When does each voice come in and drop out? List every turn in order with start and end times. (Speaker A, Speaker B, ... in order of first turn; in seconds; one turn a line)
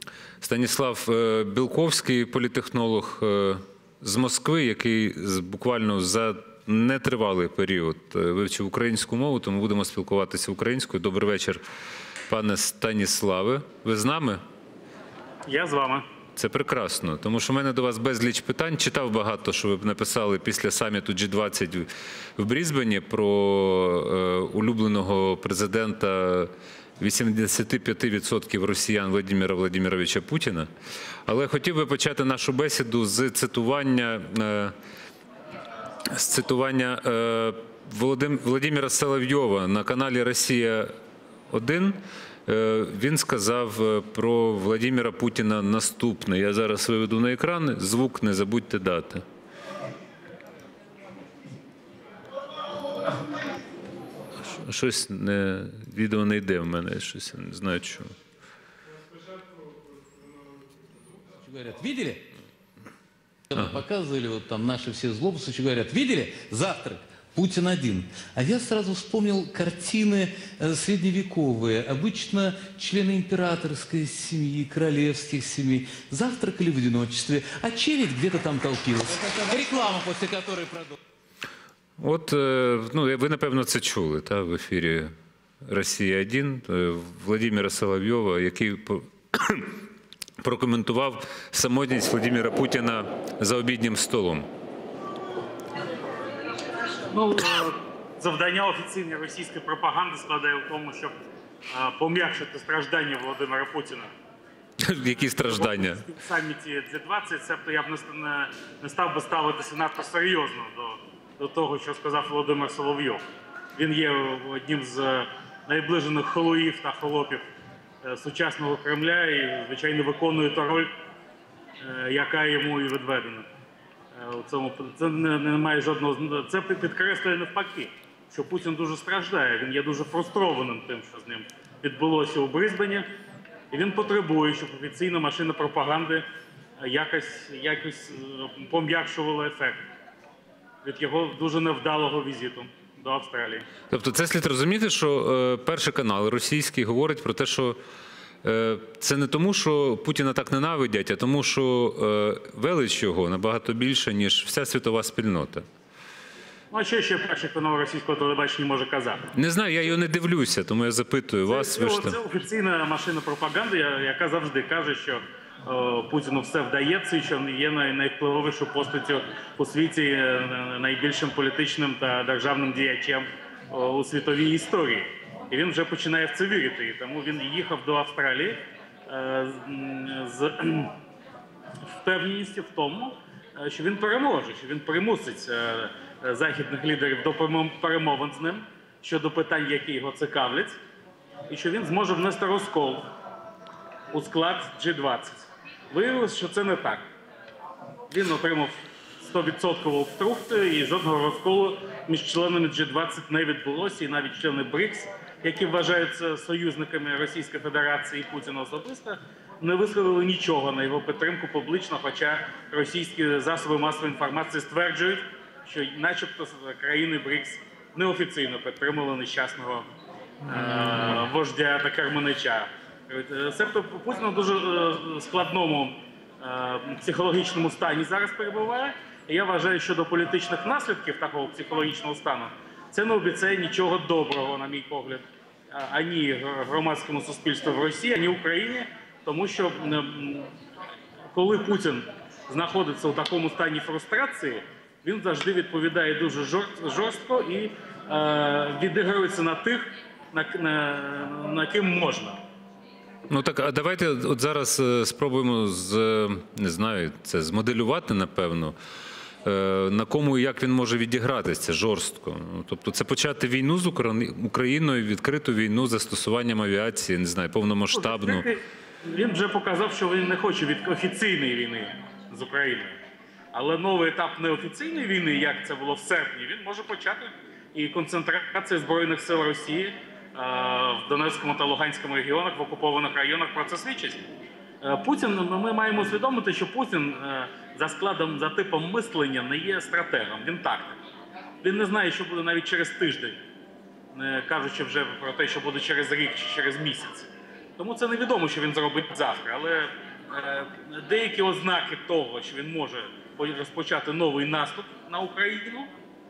Speaker A: 0.4-11.6
Speaker A: 12.3-14.4
Speaker B: 15.4-16.0
Speaker A: 16.4-21.9
Speaker A: 22.4-30.7
Speaker A: 31.3-34.7
Speaker A: 36.1-40.9
Speaker A: 41.5-49.2
Speaker A: 54.4-58.1
Speaker C: 61.4-62.3
Speaker C: 63.5-81.0
Speaker A: 82.0-85.1
Speaker A: 85.7-89.8
Speaker A: 90.4-94.5
Speaker B: 97.1-101.1
Speaker B: 101.7-104.1
Speaker A: 104.8-106.1
Speaker B: 105.4-113.2
Speaker B: 113.8-117.4
Speaker B: 118.0-120.9
Speaker B: 121.8-123.5
Speaker B: 124.1-133.1
Speaker B: 133.7-136.2
Speaker B: 136.8-139.8
Speaker B: 140.8-143.7
Speaker A: 143.9-147.8
Speaker A: 148.4-155.6
Speaker B: 156.7-159.3
Speaker A: 159.3-162.2
Speaker B: 161.5-180.9
Speaker B: 181.9-190.8
Speaker B: 191.5-193.1
Speaker B: 194.1-197.0
Speaker B: 198.1-219.8
Speaker B: 220.4-240.5
Speaker B: 241.3-252.4
Speaker A: 253.3-258.7
Speaker A: 259.4-268.4
Speaker B: 267.9-272.9
Speaker B: 273.5-284.2
Speaker B: 284.8-291.0
Speaker B: 291.6-293.4
Speaker B: 294.1-305.9